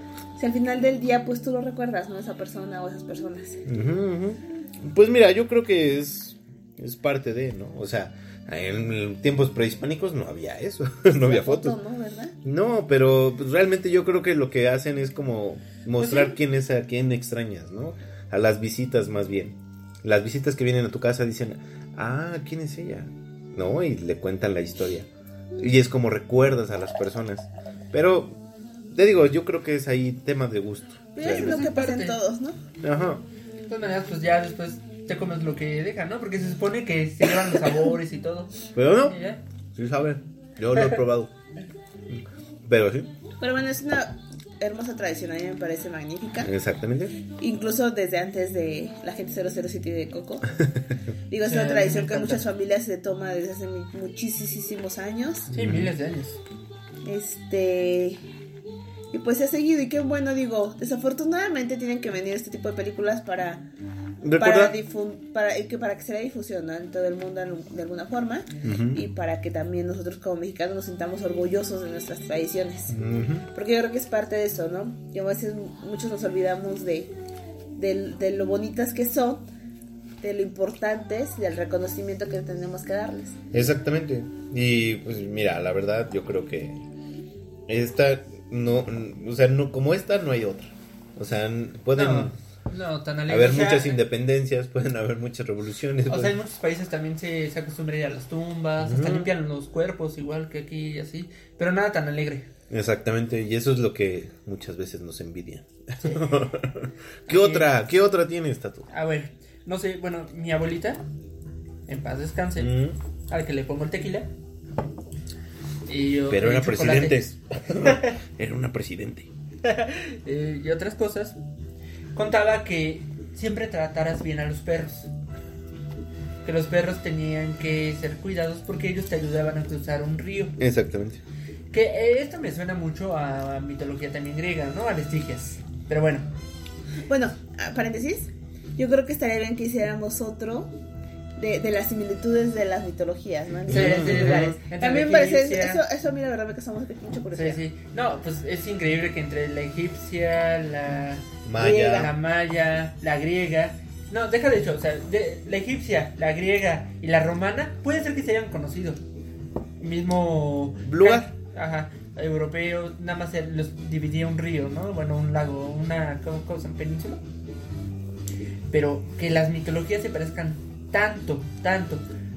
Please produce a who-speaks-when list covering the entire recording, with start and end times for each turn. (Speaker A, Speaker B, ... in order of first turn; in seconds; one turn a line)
Speaker A: 0.4-3.6
Speaker B: 3.7-11.8
Speaker A: 11.2-12.3
Speaker B: 12.4-28.4
Speaker B: 28.9-31.6
Speaker A: 31.2-32.6
Speaker C: 31.2-32.2
Speaker B: 32.8-33.2
Speaker C: 33.7-39.4
Speaker B: 38.8-39.2
Speaker B: 39.8-41.3
Speaker B: 42.1-43.1
Speaker A: 43.4-46.5
Speaker B: 46.4-47.2
Speaker A: 47.4-50.5
Speaker A: 51.3-55.5
Speaker C: 51.5-52.4
Speaker C: 55.5-56.4
Speaker B: 55.5-55.9
Speaker A: 57.0-58.2
Speaker A: 59.1-63.6
Speaker B: 64.2-64.7
Speaker A: 64.4-73.0
Speaker B: 68.6-69.0
Speaker B: 72.9-73.5
Speaker A: 73.5-77.1
Speaker A: 77.8-79.5
Speaker A: 80.2-83.4
Speaker B: 83.5-86.8
Speaker B: 87.7-92.3
Speaker C: 92.0-94.0
Speaker B: 93.3-96.3
Speaker C: 96.1-102.5
Speaker B: 98.8-99.3
Speaker B: 102.7-108.9
Speaker C: 107.3-107.7
Speaker C: 108.9-111.0
Speaker C: 111.9-112.7
Speaker B: 112.6-113.0
Speaker C: 113.3-114.3
Speaker C: 115.9-117.2
Speaker B: 116.3-119.3
Speaker C: 117.8-118.2
Speaker C: 119.6-121.4
Speaker C: 122.2-125.1
Speaker C: 126.4-130.6
Speaker B: 130.6-131.2
Speaker C: 131.7-136.3
Speaker A: 137.1-140.7
Speaker A: 141.4-147.6
Speaker B: 143.7-144.5
Speaker C: 143.7-145.8
Speaker C: 147.3-159.0
Speaker B: 151.4-152.1
Speaker A: 151.6-152.1
Speaker C: 159.8-167.2
Speaker B: 160.8-161.3
Speaker C: 168.7-172.0